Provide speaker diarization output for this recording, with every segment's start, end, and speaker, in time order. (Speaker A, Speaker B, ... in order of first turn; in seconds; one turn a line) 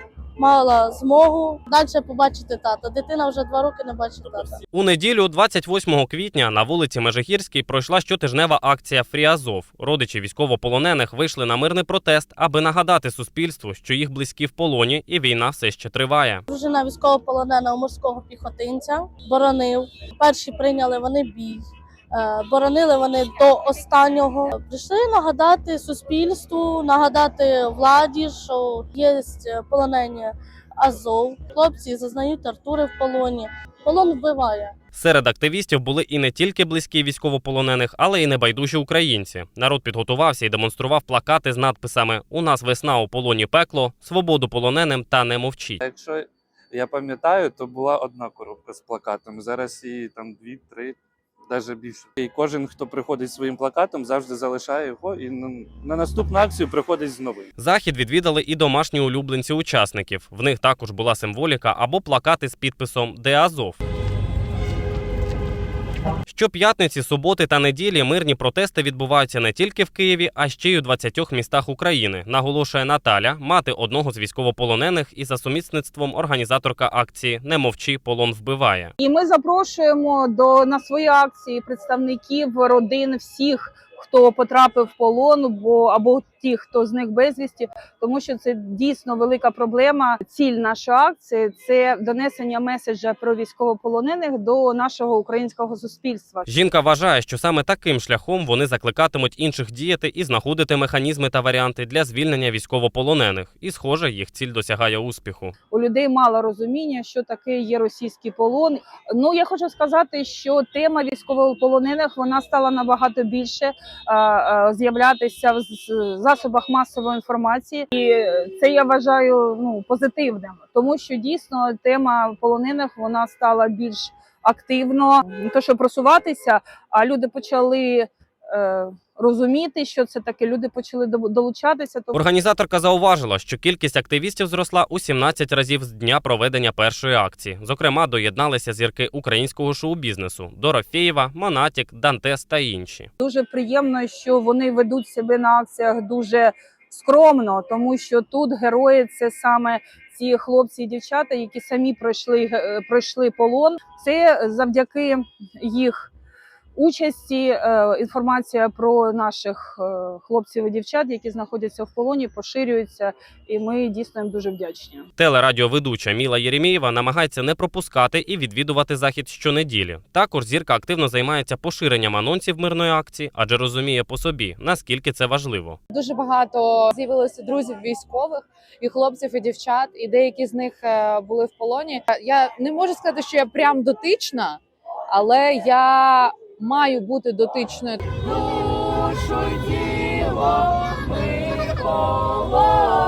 Speaker A: 0.4-4.6
Speaker B: 4.7-16.4
Speaker A: 16.5-21.6
Speaker A: 22.1-34.7
Speaker B: 34.9-45.8
Speaker C: 45.8-51.0
Speaker C: 51.5-57.5
Speaker B: 57.6-63.8
Speaker B: 66.3-78.9
Speaker D: 79.0-96.5
Speaker B: 96.5-105.5
Speaker D: 105.7-132.2
Speaker B: 132.1-143.1
Speaker D: 143.2-156.1
Speaker D: 156.8-165.1
Speaker B: 165.2-175.8
Speaker E: 175.9-190.6
Speaker E: 191.4-192.0